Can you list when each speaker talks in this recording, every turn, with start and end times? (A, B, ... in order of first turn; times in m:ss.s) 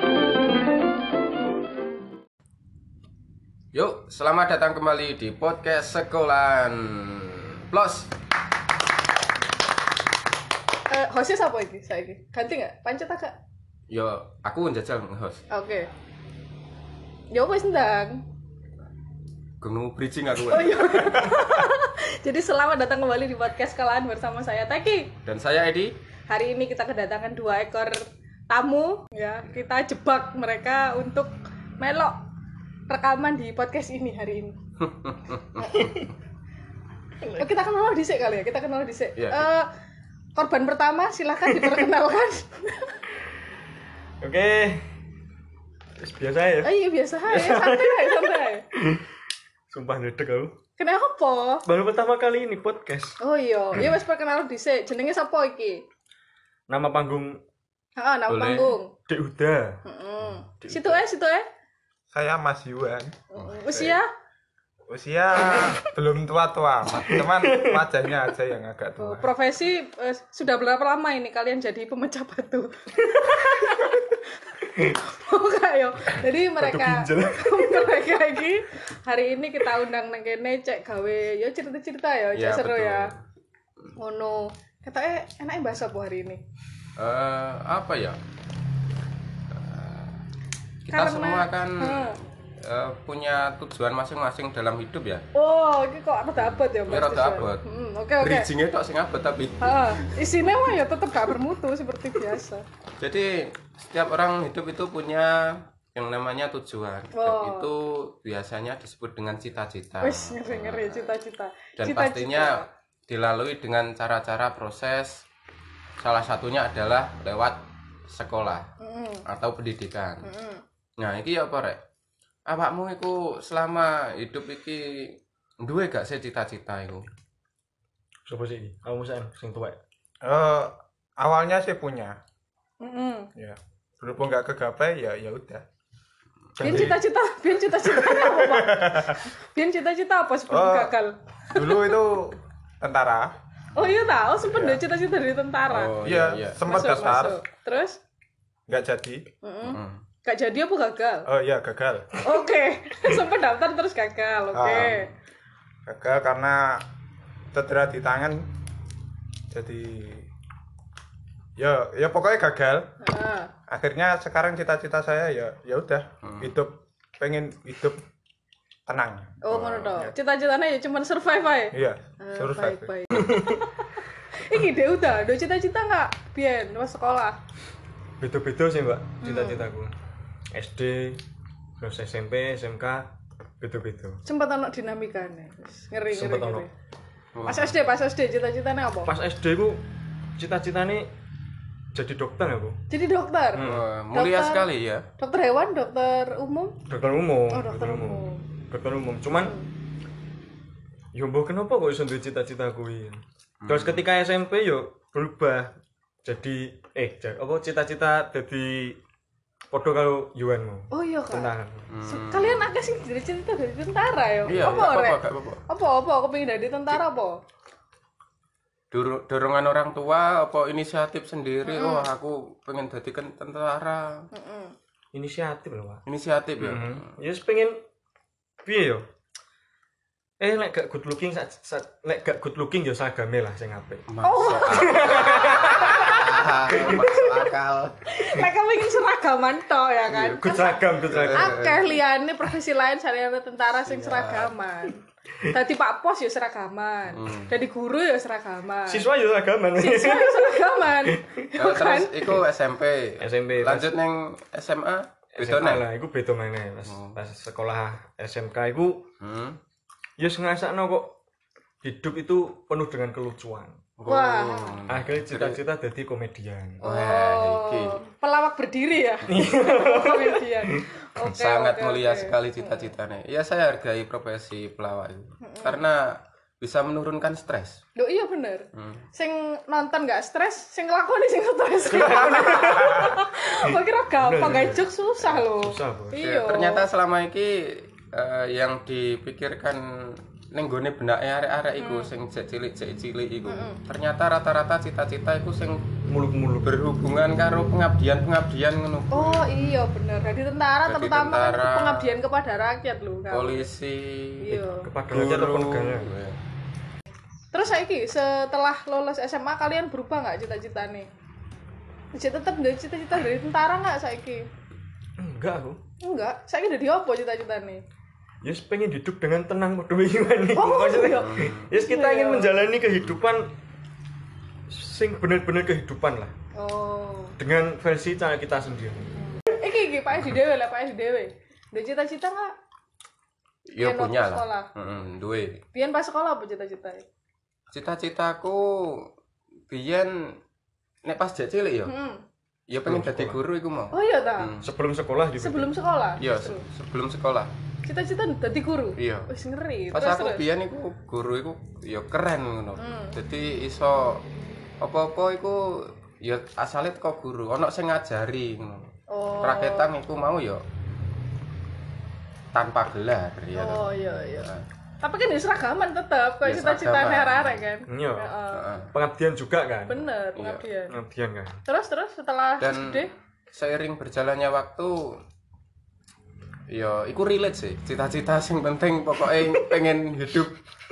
0:03.7-0:08.1 A
0:10.9-0:13.4 B
0:13.9-0:15.4 A
0:15.5-0:15.9 B
0:17.3-0:18.2 B
0:19.6-0:21.2 A
0:20.5-0:25.1 B
0:25.2-0:26.0 A
0:26.3-0:32.2 B
0:32.9-0:34.6 B
0:35.0-0:35.6 A
0:35.6-0:36.1 B
0:37.2-0:39.7 B
0:39.2-0:39.5 A
0:40.4-0:43.0 B
0:41.5-0:41.8 C
0:44.2-0:44.8 C
0:46.0-0:46.7 C
0:46.6-0:48.6 B
0:47.3-0:49.1 C
0:49.7-0:50.6 C
0:50.8-0:51.7 B
0:51.7-0:53.2 C
0:53.2-0:55.8 B
0:56.7-0:57.4 C
0:58.0-0:58.9 B
0:58.3-0:58.8 A
0:59.1-0:59.8 C
0:59.8-1:01.4 B
1:00.6-1:01.0 C
1:02.1-1:04.0 D
1:03.3-1:04.1 B
1:04.9-1:09.3 D
1:07.0-1:08.1 C
1:09.0-1:23.1 B
1:16.6-1:18.1 C
1:22.4-1:23.2 A
1:24.0-1:26.4 B
1:27.0-1:28.2 A
1:29.5-1:30.2 A
1:30.9-1:35.2 A
1:30.9-1:32.2 B
1:35.3-1:38.5 B
1:36.4-1:37.6 A
1:38.2-1:40.2 A
1:39.6-1:42.6 B
1:43.0-1:51.1 A
1:47.2-1:47.7 B
1:50.0-1:52.7 B
1:51.8-1:55.2 A
1:56.0-1:58.7 A
1:58.8-1:59.2 B
1:59.3-2:00.3 A
2:00.2-2:00.6 B
2:01.0-2:01.8 A
2:02.5-2:07.1 A
2:08.3-2:09.8 C
2:10.2-2:12.2 D
2:12.8-2:13.3 B
2:13.4-2:15.6 D
2:16.6-2:17.0 D
2:16.6-2:21.9 B
2:16.6-2:16.9 C
2:17.9-2:19.2 D
2:20.5-2:20.9 D
2:21.5-2:23.3 D
2:23.8-2:26.0 B
2:24.5-2:24.8 D
2:25.7-2:27.4 A
2:26.0-2:27.4 D
2:26.6-2:28.0 B
2:28.7-2:29.3 D
2:29.4-2:31.3 B
2:29.6-2:30.0 A
2:31.3-2:32.2 D
2:32.2-2:35.1 B
2:34.5-2:35.1 D
2:35.9-2:36.8 D
2:37.5-2:38.5 D
2:39.5-2:40.3 D
2:41.6-2:42.9 D
2:43.0-2:43.5 B
2:43.7-2:48.0 D
2:46.2-2:46.5 A
2:48.9-2:49.4 D
2:49.4-2:57.4 B
2:49.5-2:50.0 A
2:51.7-2:53.0 D
2:53.1-2:53.6 C
2:58.2-2:59.9 C
2:59.2-2:59.7 B
3:00.5-3:01.2 C
3:01.8-3:04.2 C
3:04.2-3:06.7 B
3:06.1-3:06.7 C
3:07.4-3:07.8 A
3:07.5-3:09.1 B
3:09.1-3:09.8 C
3:10.4-3:11.1 C
3:11.9-3:12.8 C
3:12.9-3:14.7 B
3:13.6-3:13.8 C
3:13.6-3:15.1 A
3:15.2-3:16.8 B
3:16.9-3:19.6 C
3:17.5-3:18.4 B
3:19.4-3:19.7 B
3:21.1-3:25.7 C
3:23.6-3:24.1 A
3:26.2-3:29.0 C
3:29.7-3:31.9 C
3:30.9-3:37.4 B
3:31.9-3:32.7 A
3:34.5-3:35.6 A
3:34.5-3:34.8 C
3:38.9-3:44.3 A
3:41.7-3:42.1 B
3:44.3-3:44.8 B
3:45.1-3:46.0 C
3:46.1-3:47.2 A
3:46.6-3:47.8 C
3:48.6-3:49.1 C
3:50.4-3:54.0 C
3:54.1-3:57.9 A
3:54.2-3:57.1 B
3:54.7-3:57.1 C
3:58.1-4:00.8 B
4:00.1-4:01.8 C
4:01.1-4:01.9 A
4:01.3-4:09.1 B
4:03.8-4:04.5 A
4:07.1-4:07.6 A
4:08.9-4:11.5 C
4:09.7-4:12.3 B
4:11.6-4:15.9 A
4:13.2-4:13.9 C
4:15.4-4:19.1 C
4:16.9-4:17.2 A
4:19.2-4:19.6 A
4:20.2-4:21.2 C
4:21.8-4:23.8 C
4:24.0-4:25.6 A
4:24.1-4:24.8 B
4:24.9-4:26.8 C
4:26.8-4:32.9 B
4:26.8-4:28.0 A
4:29.3-4:30.8 C
4:31.3-4:36.1 A
4:35.4-4:35.8 B
4:36.6-4:37.8 A
4:38.0-4:46.9 B
4:38.8-4:39.0 A
4:41.9-4:46.2 C
4:42.8-4:43.1 D
4:46.2-4:55.8 A
4:51.8-4:52.1 B
4:53.5-4:53.8 B
4:56.1-4:56.7 C
4:56.6-4:59.5 A
4:59.1-5:03.7 B
5:00.9-5:02.1 A
5:03.3-5:06.4 A
5:04.4-5:04.9 B
5:04.8-5:06.1 C
5:07.5-5:11.1 B
5:12.1-5:14.5 B
5:15.2-5:15.8 C
5:16.0-5:17.8 B
5:18.4-5:23.5 C
5:20.5-5:22.6 B
5:21.2-5:21.7 A
5:24.7-5:26.3 C
5:26.6-5:27.4 B
5:27.4-5:29.1 C
5:29.5-5:32.5 B
5:33.7-5:35.6 A
5:33.8-5:34.7 B
5:35.7-5:37.0 B
5:37.7-5:39.1 A
5:39.7-5:40.1 A
5:41.0-5:41.9 A
5:41.9-5:42.2 B
5:42.7-5:44.7 A
5:42.9-5:43.4 C
5:43.9-5:44.5 B
5:44.6-5:45.7 C
5:45.4-5:46.6 B
5:46.2-5:47.5 A
5:47.8-5:50.4 B
5:49.0-5:49.3 A
5:49.9-5:54.2 A
5:52.8-5:53.2 B
5:54.8-5:55.6 A
5:56.2-5:58.9 A
5:59.1-5:59.9 B
5:59.4-6:00.6 A
6:02.5-6:04.6 A
6:03.6-6:04.5 B
6:05.0-6:08.7 B
6:06.4-6:07.6 A
6:07.9-6:08.3 C
6:08.5-6:08.9 A
6:08.9-6:10.0 C
6:09.9-6:11.0 B
6:10.4-6:10.6 A
6:10.9-6:11.6 C
6:11.7-6:13.1 B
6:12.6-6:13.0 A
6:13.5-6:15.2 A
6:16.7-6:20.6 A